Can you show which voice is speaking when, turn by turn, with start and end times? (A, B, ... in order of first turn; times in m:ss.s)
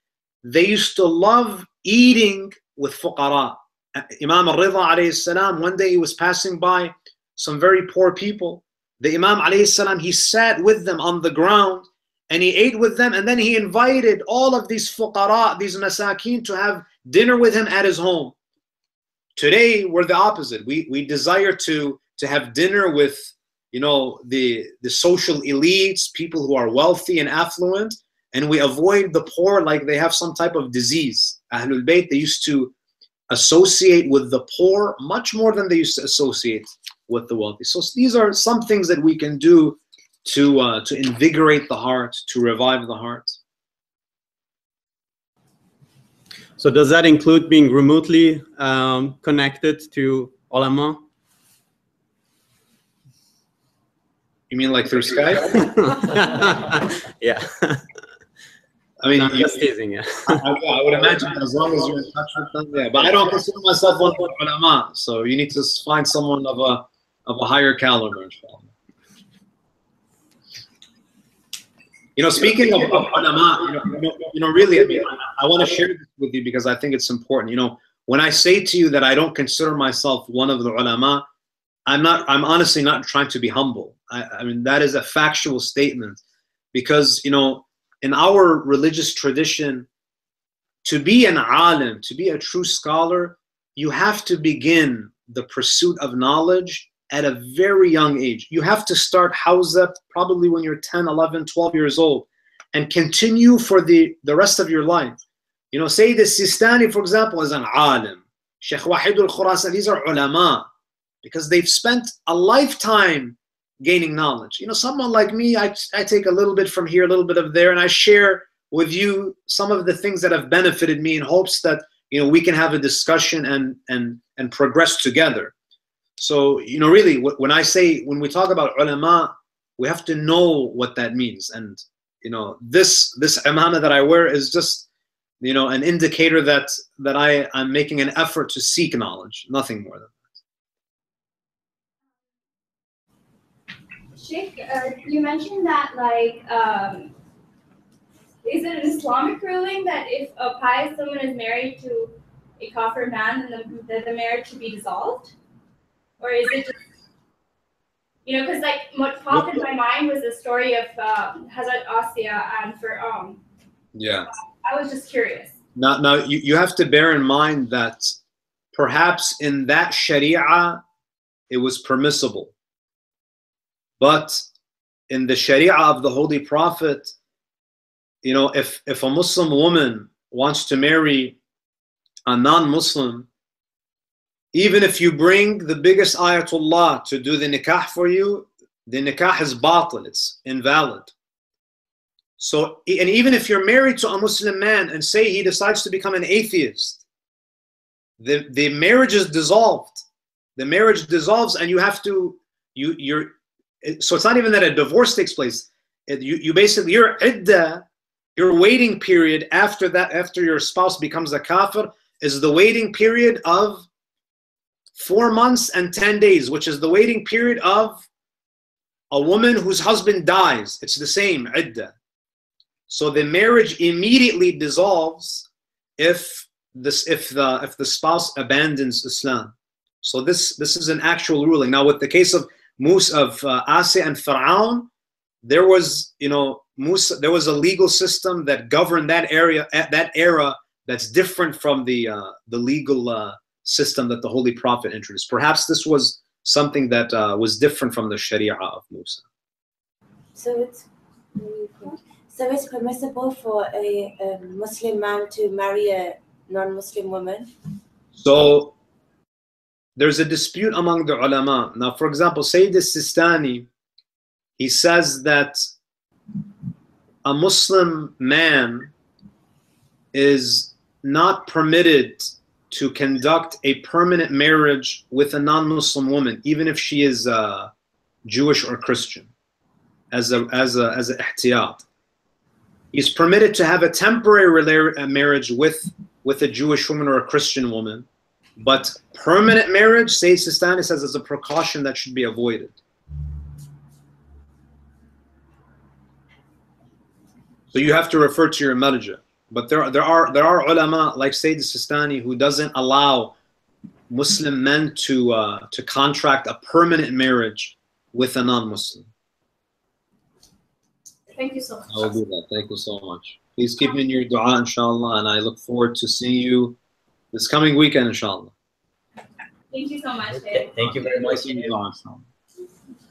0:00.4-0:18.4 A
0:19.4-0:32.7 A
0:33.3-0:43.4 A
0:46.6-0:51.0 B
0:54.5-0:55.7 A
0:55.6-0:57.8 B
0:59.0-0:59.7 A
0:59.2-1:00.5 B
1:00.2-1:08.7 A
1:12.2-1:21.2 A
1:21.9-1:26.2 A
1:26.7-1:29.9 A
1:30.8-1:45.2 A
1:45.7-1:50.7 A
1:51.2-2:05.5 A
2:06.2-2:14.9 A
2:15.4-2:20.2 A
2:24.2-2:27.1 C
2:28.4-2:35.3 C
2:36.2-2:36.7 C
2:38.2-2:43.4 C
2:39.3-2:39.6 A
2:44.0-2:44.3 A
2:44.6-2:45.6 C
2:45.8-2:48.2 A
2:48.7-2:50.8 A
2:51.5-2:52.5 A
2:54.0-2:54.4 A
2:55.1-2:57.2 A
2:58.2-3:01.4 A
3:02.3-3:03.3 A
3:04.5-3:11.1 A
3:12.4-3:17.0 A
3:18.2-3:20.0 A
3:20.6-3:27.8 A
3:28.4-3:33.9 A
3:35.0-3:38.1 A
3:39.1-3:41.9 A
3:42.9-3:45.5 A
3:46.0-3:54.9 A
3:55.4-4:09.2 A
4:10.4-4:17.5 D
4:18.2-4:18.8 A
4:20.0-4:23.7 A
4:24.6-4:25.7 A
4:27.2-4:28.9 A
4:30.1-4:37.7 A
4:38.2-4:39.3 A
4:40.1-4:41.8 A
4:42.9-4:52.8 A
4:57.7-5:03.4 A
5:04.1-5:09.1 A
5:11.3-5:12.0 C
5:11.9-5:16.8 A
5:17.3-5:18.5 A
5:19.7-5:21.0 C
5:20.8-5:22.2 A